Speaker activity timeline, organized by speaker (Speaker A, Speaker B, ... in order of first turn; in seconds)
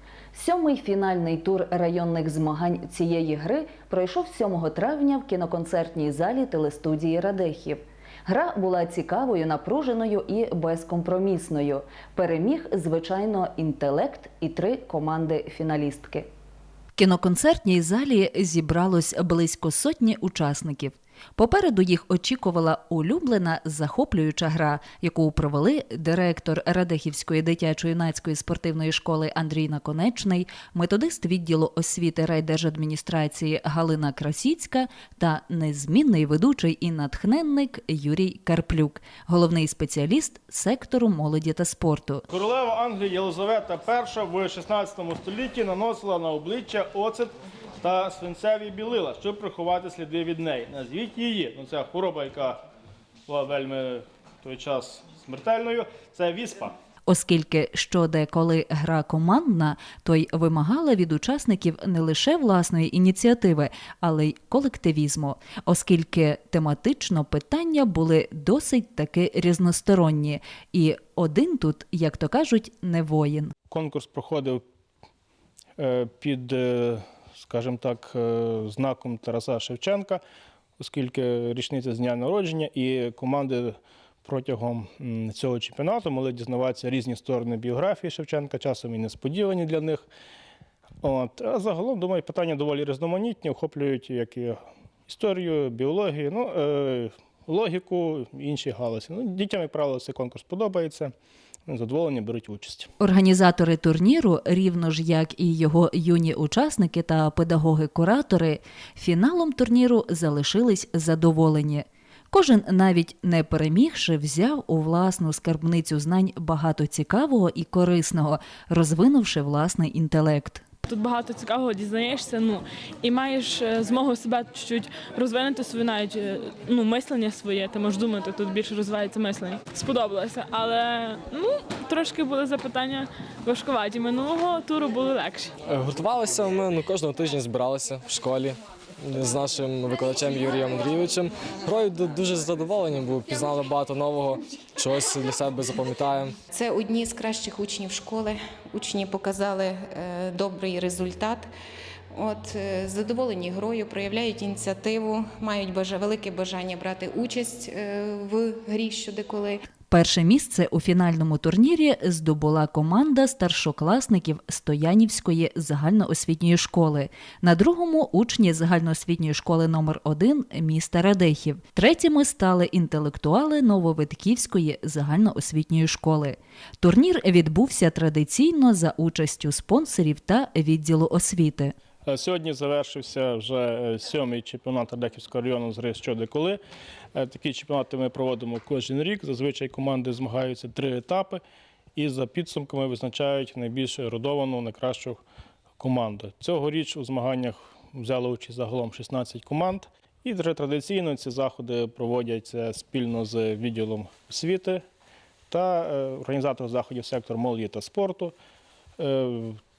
Speaker A: 0.3-16.3, 17.0-42.2, 57.1-73.5, 103.0-120.6, 159.9-181.8
Speaker B: 42.3-52.6, 53.3-56.8, 73.7-74.6, 75.8-80.2, 80.8-90.1, 91.0-101.1, 101.7-102.9, 182.1-186.6, 187.1-191.4, 191.9-195.2, 195.8-204.8, 205.5-208.3, 209.0-209.6
Speaker C: 120.9-135.5
Speaker D: 135.7-146.3
Speaker E: 146.5-151.5, 152.1-159.6